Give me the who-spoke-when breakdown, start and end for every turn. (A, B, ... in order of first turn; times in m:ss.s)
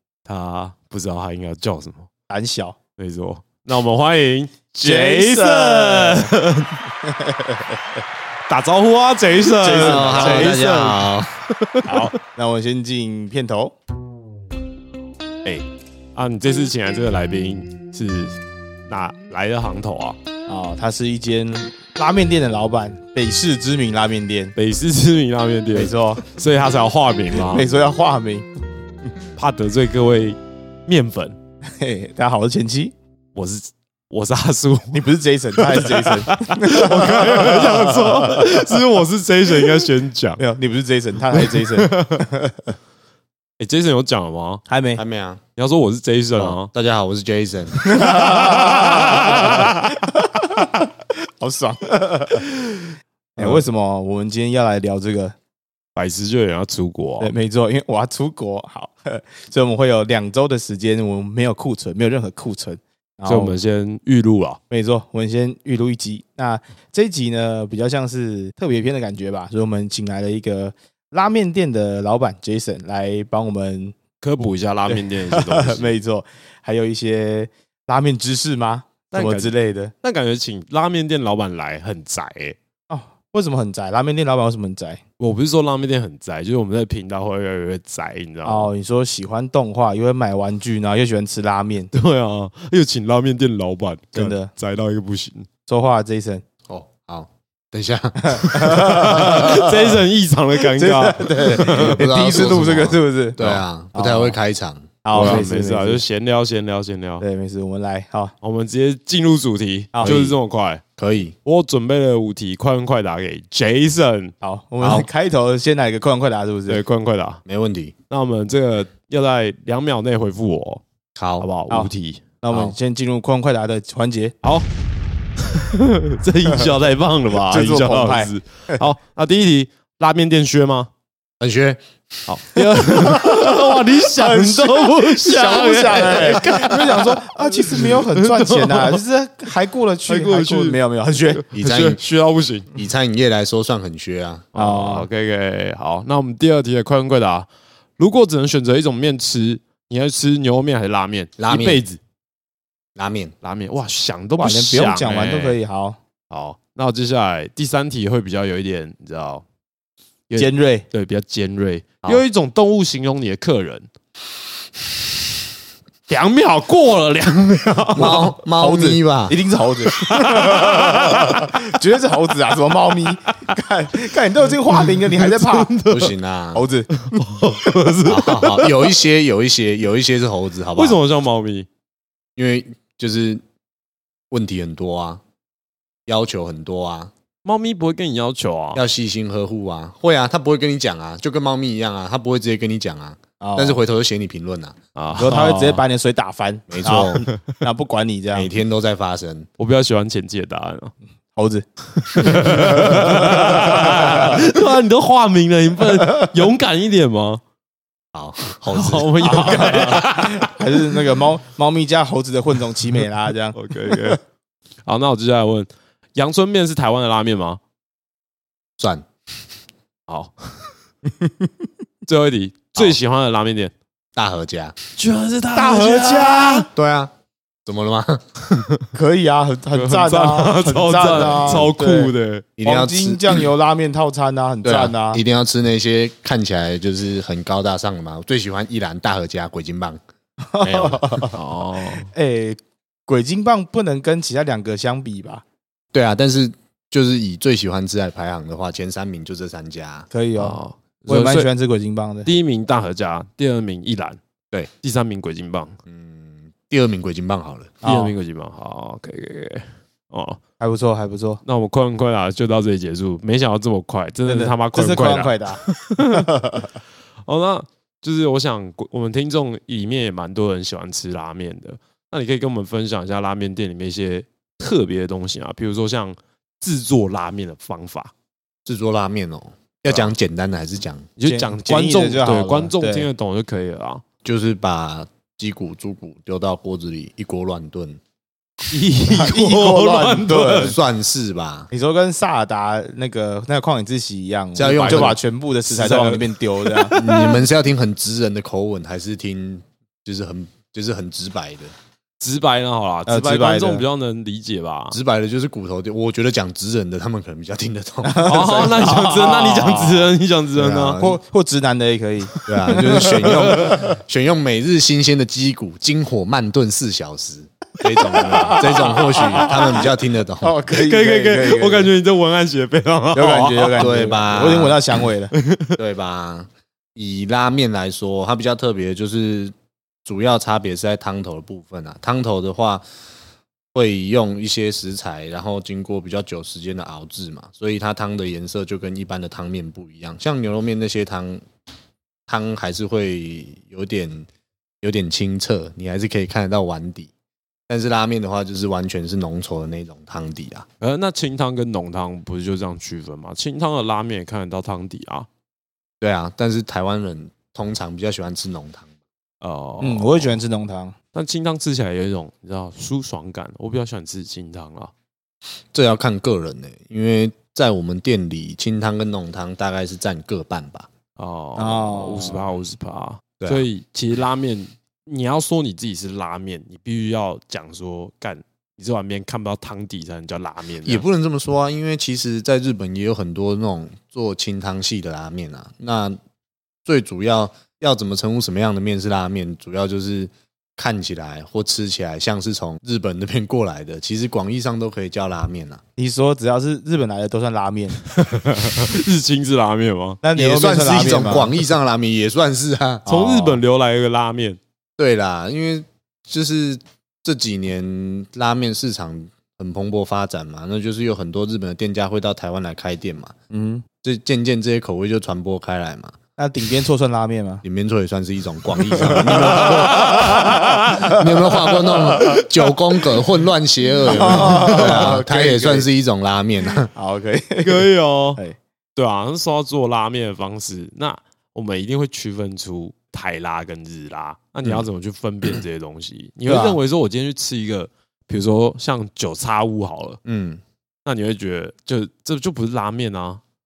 0:00.3-0:02.1 A
0:02.3-0:02.8 B
0:03.0-0:06.8 A
0:04.8-0:06.4 B
0:07.3-0:07.6 B
0:08.5-0:11.0 A
0:09.6-0:11.0 B
0:09.7-0:11.4 C
0:11.6-0:12.1 A
0:11.8-0:13.8 B
0:15.4-0:18.4 A
0:18.9-0:20.2 A
0:20.5-0:24.5 B
0:24.6-0:27.8 A
0:25.8-0:26.3 B
0:27.4-0:28.5 B
0:29.4-0:31.4 A
0:31.8-0:32.9 B
0:33.4-0:40.4 A
0:34.9-0:38.5 B
0:40.4-0:42.7 B
0:41.3-0:42.3 A
0:43.6-0:44.6 A
0:44.7-0:45.0 B
0:45.0-0:45.4 C
0:45.6-0:46.7 A
0:46.4-0:48.3 C
0:47.8-0:55.4 B
0:48.2-0:49.8 A
0:56.0-0:57.3 A
0:57.2-1:03.6 B
1:03.3-1:04.6 A
1:04.7-1:14.0 B
1:14.2-1:16.0 A
1:14.9-1:19.9 B
1:19.1-1:22.6 A
1:22.9-1:25.0 B
1:25.2-1:28.7 A
1:28.4-1:31.9 B
1:31.9-1:35.5 A
1:34.1-1:34.5 B
1:35.7-1:36.4 B
1:36.7-1:39.6 C
1:38.2-1:39.6 B
1:38.4-1:42.0 A
1:40.7-1:44.4 B
1:41.4-1:45.5 C
1:45.0-1:46.0 B
1:45.1-1:47.3 A
1:47.2-1:48.3 B
1:48.4-1:50.8 A
1:49.9-1:50.3 B
1:50.0-1:50.4 C
1:51.0-1:51.4 C
1:51.4-1:54.4 A
1:54.4-1:56.8 B
1:54.8-1:55.1 C
1:56.7-1:57.4 A
1:57.4-1:57.9 C
1:58.1-2:00.8 A
2:01.2-2:01.5 C
2:01.4-2:02.2 A
2:01.7-2:04.4 B
2:02.5-2:02.8 C
2:05.5-2:10.9 A
2:07.5-2:08.8 B
2:11.4-2:11.8 C
2:12.3-2:19.0 A
2:13.2-2:21.4 B
2:20.1-2:22.7 A
2:21.5-2:22.0 C
2:22.7-2:24.6 C
2:24.5-2:32.0 A
2:24.6-2:25.1 B
2:31.4-2:31.8 C
2:33.0-2:33.3 C
2:33.4-2:35.6 A
2:34.4-2:36.0 B
2:36.3-2:39.4 A
2:40.3-2:43.9 A
2:40.4-2:40.9 B
2:46.1-2:48.3 A
2:48.0-2:49.4 C
2:48.6-2:55.8 B
2:49.9-2:51.7 A
2:53.3-2:53.5 A
2:54.7-2:56.1 A
2:55.9-2:56.7 C
2:56.5-2:57.1 B
2:56.9-2:58.8 A
2:58.0-3:01.0 C
3:00.7-3:01.7 A
3:02.4-3:03.4 C
3:04.3-3:05.2 C
3:06.1-3:07.1 C
3:07.4-3:08.8 A
3:08.8-3:14.8 C
3:13.4-3:13.8 B
3:15.0-3:15.8 A
3:15.2-3:18.5 B
3:16.7-3:17.3 C
3:18.3-3:19.5 C
3:19.6-3:20.9 A
3:21.4-3:24.4 B
3:22.0-3:27.4 A
3:28.1-3:29.5 C
3:28.7-3:30.5 A
3:29.2-3:34.2 B
3:33.5-3:34.2 A
3:34.9-3:37.6 A
3:38.8-3:39.1 C
3:40.1-3:40.7 A
3:42.1-3:43.7 A
3:44.2-3:44.8 C
3:45.0-3:46.7 A
3:45.6-3:46.7 B
3:46.7-3:47.1 C
3:47.7-3:48.2 C
3:48.5-3:48.9 A
3:48.9-3:55.2 B
3:49.7-3:52.5 A
3:51.2-3:51.7 C
3:52.6-3:53.3 C
3:54.6-4:00.0 C
4:00.5-4:01.4 B
4:00.6-4:01.2 C
4:01.3-4:02.1 A
4:02.1-4:05.4 B
4:05.9-4:10.1 C
4:10.1-4:12.3 B
4:10.4-4:11.5 A
4:12.2-4:14.2 A
4:14.8-4:15.8 A
4:15.9-4:17.8 C
4:17.8-4:18.1 B
4:17.8-4:20.4 A
4:20.6-4:21.4 B
4:21.4-4:26.3 A
4:24.3-4:26.7 B
4:27.3-4:38.1 A
4:38.7-4:41.1 C
4:41.2-4:44.0 A
4:41.2-4:43.1 B
4:44.2-4:48.0 C
4:48.7-4:50.8 A
4:49.0-4:50.8 B
4:50.5-4:51.7 C
4:51.7-4:57.0 B
4:54.6-4:55.2 C
4:55.7-4:57.4 A
4:56.9-5:01.7 C
5:02.2-5:05.0 A
5:03.1-5:03.8 B
5:04.9-5:08.9 C
5:08.0-5:10.1 B
5:08.2-5:11.0 A
5:10.6-5:11.2 C
5:11.0-5:13.8 B
5:12.3-5:13.9 A
5:12.5-5:20.5 C
5:18.2-5:19.8 A
5:18.3-5:19.9 B
5:20.4-5:21.9 B
5:20.7-5:24.4 A
5:23.2-5:25.3 B
5:23.8-5:24.8 C
5:25.3-5:25.8 A
5:25.8-5:29.5 C
5:30.0-5:32.8 C
5:33.7-5:41.4 C
5:42.3-5:44.3 C
5:44.8-5:47.1 C
5:47.7-5:50.7 C
5:50.8-5:55.3 A
5:56.0-5:58.9 C
5:59.4-6:00.4 A
5:59.8-6:01.0 B
6:01.1-6:04.9 A
6:05.7-6:10.9 C
6:11.2-6:21.0 A
6:11.6-6:12.5 B
6:13.4-6:13.7 C
6:20.8-6:26.2 C
6:26.9-6:35.8 C
6:36.0-6:38.0 B
6:38.1-6:40.2 A
6:40.2-6:41.5 B
6:40.4-6:43.0 C
6:43.1-6:43.6 B
6:43.1-6:44.6 A
6:45.0-6:53.4 C
6:53.5-6:53.8 B
6:54.0-6:56.2 C
6:56.4-6:57.6 B
6:57.6-7:06.9 C
6:59.0-7:03.2 A
6:59.1-6:59.9 B
7:04.1-7:05.9 B
7:04.1-7:05.1 A
7:06.9-7:08.6 B
7:07.6-7:08.4 A
7:09.0-7:20.2 A
7:16.5-7:16.8 B
7:20.2-7:20.6 C
7:21.0-7:23.4 A